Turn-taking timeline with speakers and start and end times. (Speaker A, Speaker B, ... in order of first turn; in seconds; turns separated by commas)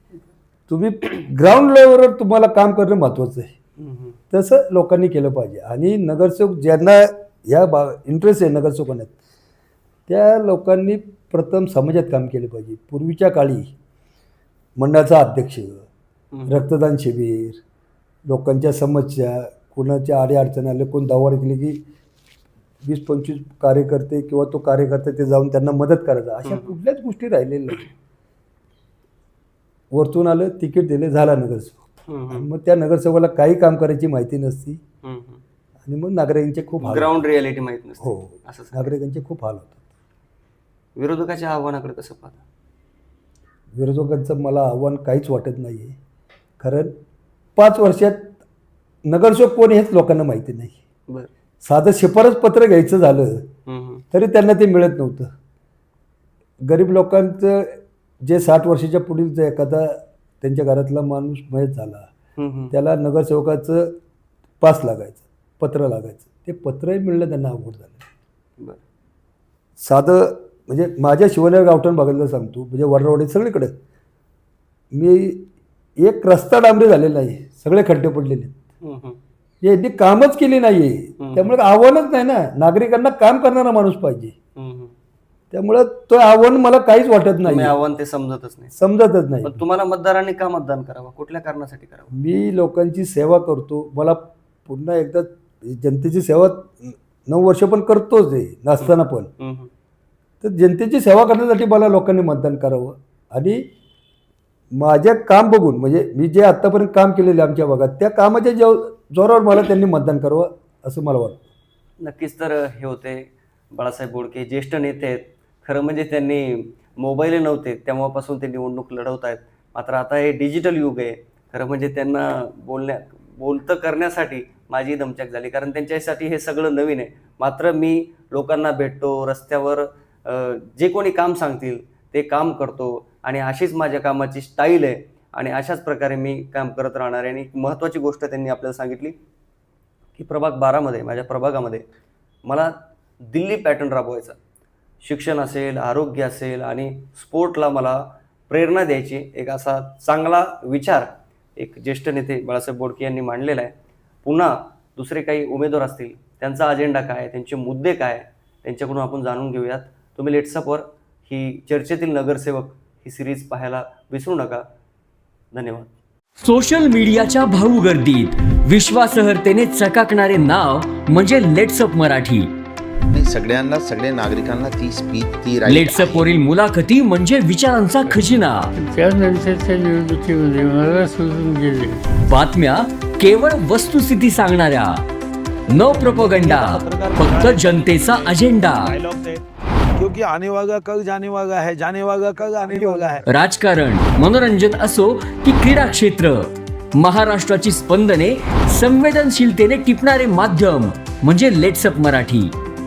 Speaker A: 0.7-3.5, Speaker B: 3.8-4.2, Speaker A: 4.3-9.1, Speaker A: 10.1-13.7, Speaker A: 14.8-15.8, Speaker A: 16.5-17.6, Speaker A: 18.3-21.8, Speaker A: 22.8-27.9, Speaker B: 26.4-26.8, Speaker A: 29.9-34.8, Speaker B: 32.1-32.5, Speaker B: 35.0-35.4, Speaker A: 35.9-37.2, Speaker B: 36.8-38.9, Speaker A: 38.0-39.8, Speaker B: 41.0-42.4, Speaker A: 43.7-46.0, Speaker A: 46.6-46.9, Speaker A: 47.6-48.4, Speaker A: 49.0-50.8, Speaker A: 51.6-53.5, Speaker B: 53.7-54.0, Speaker A: 54.1-55.3, Speaker A: 56.6-62.1, Speaker B: 62.4-62.7, Speaker A: 62.7-64.0, Speaker A: 64.6-68.0, Speaker A: 69.8-73.7, Speaker A: 74.9-78.5, Speaker B: 78.8-79.2, Speaker A: 79.6-84.3, Speaker B: 81.2-81.5, Speaker B: 84.6-84.9, Speaker A: 85.5-87.7, Speaker B: 87.4-88.7, Speaker A: 88.7-89.6, Speaker B: 89.4-92.1, Speaker A: 92.1-99.3, Speaker B: 98.8-99.7, Speaker A: 100.4-103.7, Speaker A: 104.7-111.5, Speaker B: 112.0-139.2, Speaker B: 140.2-141.8, Speaker B: 142.4-144.4, Speaker B: 145.0-164.7, Speaker B: 165.5-165.9, Speaker C: 166.4-172.5, Speaker D: 173.1-176.3, Speaker C: 175.7-178.7, Speaker E: 178.8-182.0, Speaker C: 182.2-185.0, Speaker C: 185.7-189.0, Speaker F: 185.8-189.4, Speaker F: 190.0-193.3, Speaker C: 193.2-202.5